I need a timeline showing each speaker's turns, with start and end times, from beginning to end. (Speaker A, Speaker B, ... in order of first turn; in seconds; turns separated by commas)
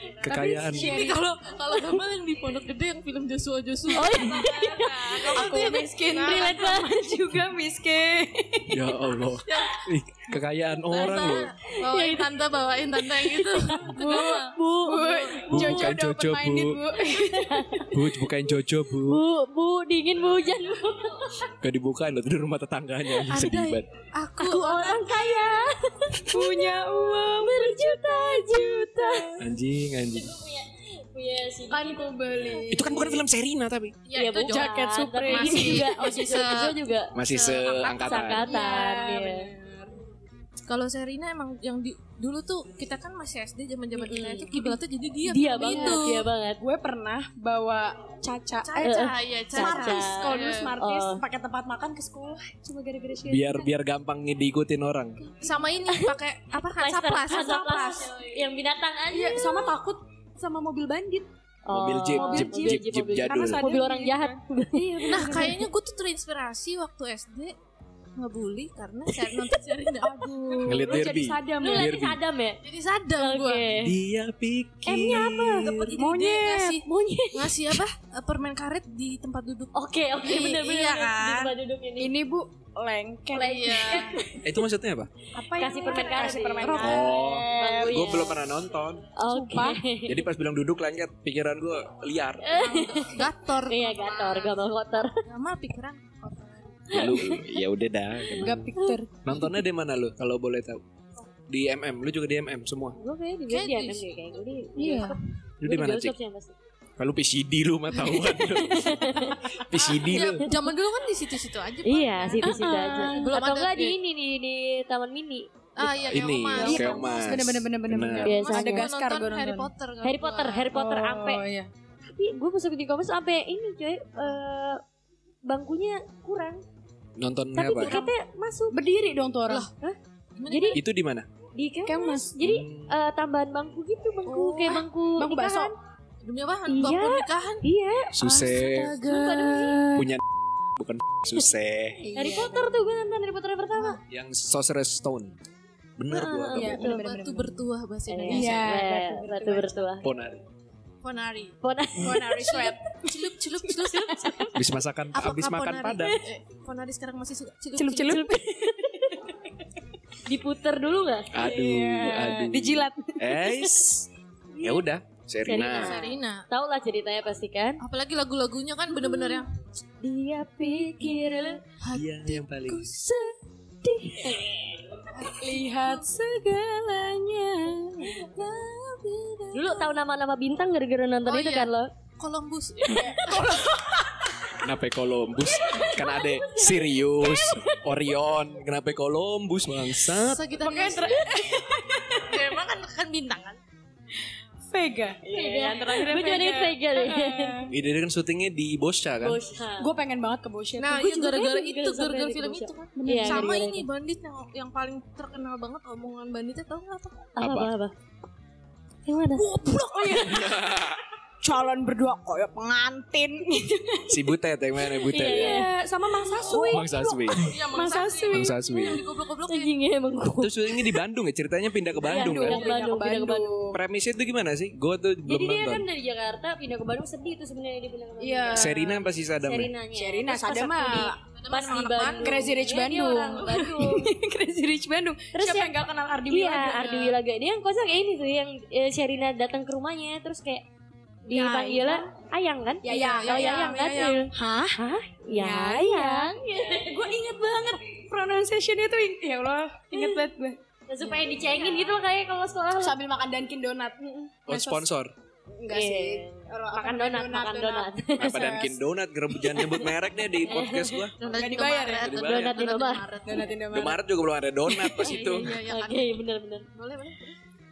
Speaker A: 0.2-1.0, Speaker B: 0.2-1.2, Speaker C: 0.3-6.7, Speaker D: 3.9-5.6, Speaker B: 4.1-4.4, Speaker B: 5.1-9.0, Speaker D: 6.1-7.0, Speaker A: 8.7-11.5, Speaker C: 9.5-9.9, Speaker C: 10.9-15.7, Speaker D: 10.9-12.3, Speaker D: 13.2-15.2, Speaker B: 13.9-18.0, Speaker A: 15.5-16.8, Speaker D: 17.2-17.9, Speaker A: 17.9-19.2, Speaker D: 19.0-21.6, Speaker A: 21.6-23.9, Speaker C: 23.3-25.6, Speaker D: 24.4-29.4, Speaker B: 26.3-29.5, Speaker A: 29.4-30.3, Speaker D: 30.1-32.7, Speaker B: 31.7-33.2, Speaker A: 32.7-34.0, Speaker C: 34.0-38.4, Speaker D: 34.1-37.1, Speaker B: 34.5-36.6, Speaker A: 37.1-38.5, Speaker D: 38.0-39.5, Speaker B: 38.3-40.0, Speaker C: 40.7-46.3, Speaker D: 43.9-44.7, Speaker D: 45.2-46.6, Speaker B: 45.6-53.7, Speaker C: 48.6-50.7, Speaker D: 48.8-51.2, Speaker A: 53.2-55.2, Speaker B: 55.4-55.7, Speaker C: 55.4-58.4, Speaker D: 55.9-59.8, Speaker B: 59.1-61.3, Speaker D: 61.6-65.6, Speaker A: 61.7-63.7, Speaker B: 62.1-65.7, Speaker C: 65.1-67.5, Speaker C: 68.2-70.3, Speaker B: 70.0-72.0, Speaker A: 70.7-72.2, Speaker D: 71.6-72.6, Speaker C: 72.6-73.7, Speaker D: 73.2-74.0, Speaker A: 73.8-76.0, Speaker D: 74.8-75.8, Speaker C: 75.5-81.6, Speaker B: 76.0-76.8, Speaker D: 76.8-77.8, Speaker D: 79.7-82.1, Speaker B: 82.0-84.2, Speaker C: 83.3-84.2, Speaker D: 84.1-84.4, Speaker A: 84.4-85.1, Speaker B: 85.3-88.4, Speaker D: 85.5-88.5, Speaker A: 86.7-89.1, Speaker D: 89.2-90.2, Speaker B: 89.3-89.8, Speaker A: 90.1-92.6, Speaker D: 92.4-95.2, Speaker B: 92.7-93.2, Speaker C: 92.8-97.0, Speaker A: 96.9-98.7, Speaker D: 96.9-97.5, Speaker D: 98.4-99.0, Speaker B: 98.4-99.1, Speaker A: 99.2-100.8, Speaker A: 101.5-103.0, Speaker D: 103.0-106.6, Speaker C: 103.5-105.1, Speaker B: 104.8-105.2, Speaker A: 105.6-106.2, Speaker A: 107.0-108.9, Speaker D: 108.4-109.5, Speaker B: 109.2-109.7, Speaker A: 109.6-110.5, Speaker C: 109.8-114.0, Speaker D: 111.8-115.5, Speaker B: 112.4-113.3, Speaker C: 115.8-117.3, Speaker A: 116.0-118.4, Speaker B: 116.6-119.7, Speaker D: 116.6-117.0, Speaker C: 118.2-120.7, Speaker D: 118.2-118.9, Speaker D: 120.0-121.4, Speaker B: 120.7-121.7, Speaker D: 122.1-124.8, Speaker D: 125.5-126.6, Speaker A: 127.2-128.0, Speaker D: 127.5-128.8, Speaker C: 127.8-128.1, Speaker B: 128.7-129.7, Speaker D: 129.8-130.8, Speaker C: 130.4-130.8, Speaker A: 130.7-131.3, Speaker D: 131.6-135.7, Speaker B: 131.9-132.4, Speaker A: 132.4-132.9, Speaker B: 134.3-135.8, Speaker C: 134.3-134.8, Speaker C: 136.2-137.6, Speaker D: 136.7-138.1, Speaker A: 138.1-139.0, Speaker B: 138.2-140.1, Speaker D: 138.9-139.8, Speaker A: 139.9-142.0, Speaker B: 142.0-142.9, Speaker D: 142.1-144.0, Speaker C: 143.7-144.0, Speaker A: 144.1-145.4, Speaker A: 146.0-146.8, Speaker D: 146.1-147.0, Speaker B: 146.6-147.6, Speaker C: 146.7-148.8, Speaker D: 148.1-150.1, Speaker B: 148.3-149.8, Speaker A: 150.0-150.4, Speaker C: 151.0-151.6, Speaker D: 151.6-152.7, Speaker B: 152.0-154.4, Speaker C: 152.5-154.4, Speaker A: 154.5-156.1, Speaker C: 155.1-158.2, Speaker B: 157.8-158.8, Speaker D: 158.0-159.2, Speaker D: 160.2-161.9, Speaker A: 161.3-164.1, Speaker B: 161.4-163.6, Speaker D: 164.5-164.8, Speaker A: 164.6-166.0, Speaker D: 165.4-167.8, Speaker C: 165.7-166.4, Speaker C: 167.8-169.5, Speaker D: 170.0-171.6, Speaker B: 170.6-171.6, Speaker C: 171.8-173.1, Speaker A: 171.9-173.1, Speaker D: 173.8-175.1, Speaker C: 175.1-176.2, Speaker B: 175.2-176.2, Speaker B: 178.0-178.3, Speaker C: 178.1-180.0, Speaker D: 178.3-178.6, Speaker D: 179.5-181.9, Speaker C: 181.2-183.7, Speaker B: 182.8-184.3, Speaker A: 184.6-190.4, Speaker D: 185.7-187.6, Speaker C: 190.1-191.4, Speaker B: 190.6-192.4, Speaker C: 192.2-193.6, Speaker B: 194.7-197.7, Speaker D: 195.2-197.7, Speaker A: 197.7-199.4, Speaker D: 199.2-199.9, Speaker B: 199.8-201.4, Speaker C: 200.8-207.3, Speaker D: 201.2-203.8, Speaker B: 203.0-203.6, Speaker D: 207.4-207.9, Speaker A: 207.4-207.7, Speaker D: 209.1-209.5, Speaker C: 209.3-210.8, Speaker B: 210.0-210.6, Speaker A: 210.2-211.0, Speaker B: 211.4-214.3, Speaker A: 214.1-215.7, Speaker D: 215.1-215.7, Speaker B: 215.2-218.6, Speaker D: 216.4-216.8, Speaker A: 216.6-217.6, Speaker C: 217.3-219.8, Speaker A: 218.3-219.0, Speaker D: 219.5-221.0, Speaker A: 220.4-222.7, Speaker D: 222.0-223.7, Speaker B: 222.0-223.8, Speaker A: 223.7-225.9, Speaker D: 225.3-234.1, Speaker B: 228.2-229.1, Speaker A: 228.5-229.7, Speaker B: 229.9-231.2, Speaker C: 231.3-232.6, Speaker B: 232.0-237.2, Speaker D: 235.3-235.7, Speaker D: 236.3-240.6, Speaker D: 241.3-247.1, Speaker B: 241.3-242.1, Speaker B: 242.8-244.8, Speaker C: 242.9-243.8, Speaker B: 245.3-252.0, Speaker D: 249.9-250.3, Speaker D: 250.9-253.0, Speaker B: 252.8-254.9, Speaker A: 254.5-255.1, Speaker B: 255.5-258.8, Speaker D: 255.7-258.6, Speaker A: 258.2-261.1, Speaker B: 259.5-259.9, Speaker D: 260.4-261.1, Speaker C: 261.2-263.5, Speaker B: 261.2-264.0, Speaker A: 262.0-262.6, Speaker D: 262.2-263.2, Speaker A: 263.7-265.5, Speaker D: 264.7-266.7, Speaker C: 264.9-266.2, Speaker C: 266.8-267.4